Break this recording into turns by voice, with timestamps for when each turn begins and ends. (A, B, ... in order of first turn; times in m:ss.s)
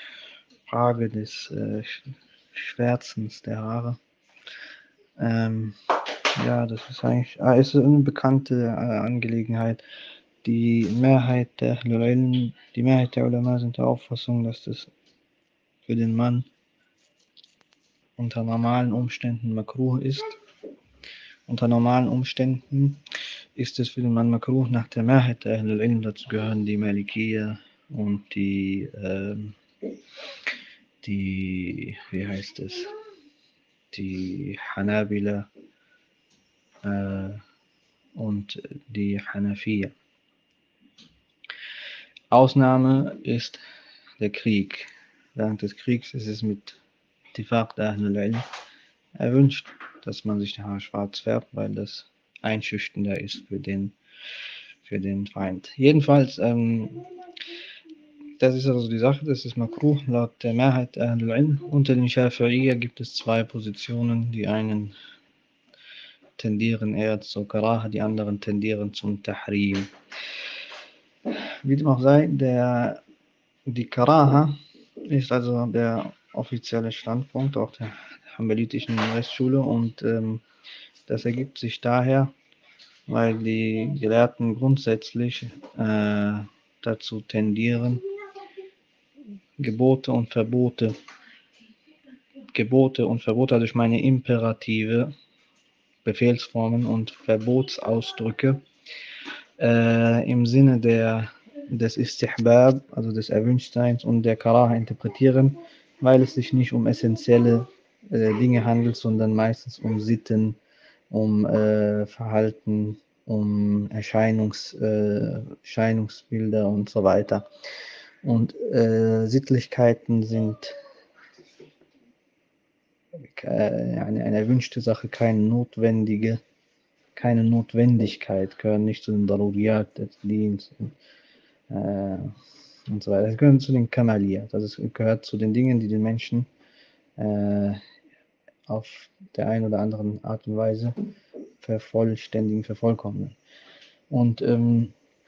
0:00.7-0:04.0 A
0:05.2-0:05.8 A
0:06.4-0:09.8 A
0:10.4-0:14.9 A
0:15.8-0:16.4 A
0:18.2-0:20.3 A
0:21.5-0:23.0 A
0:23.6-0:29.6 A
0:31.0-0:32.9 A
0:33.9-0:35.5 A
0:36.8-0:37.4 A
0:38.1-0:39.9 A
0:42.3-0:43.6 A
0:44.2-0:46.8 A
0:47.3-0:48.4 A
0:49.2-0:53.9 A
0:54.8-0:57.0 A
0:58.4-1:04.9 A
1:06.4-1:09.9 A
1:11.6-1:13.0 A
1:13.7-1:20.4 A
1:21.1-1:22.3 A
1:23.1-1:28.0 A
1:29.6-1:31.0 A
1:32.5-1:35.1 A
1:36.0-1:38.6 A
1:39.6-1:50.6 A
1:51.1-1:57.5 A
1:58.2-2:00.8 A
2:03.2-2:06.4 A
2:07.2-2:10.9 A
2:11.7-2:12.3 A
2:12.9-2:16.5 A
2:17.2-2:17.8 A
2:18.7-2:21.0 A
2:21.6-2:23.4 A
2:24.1-2:24.9 A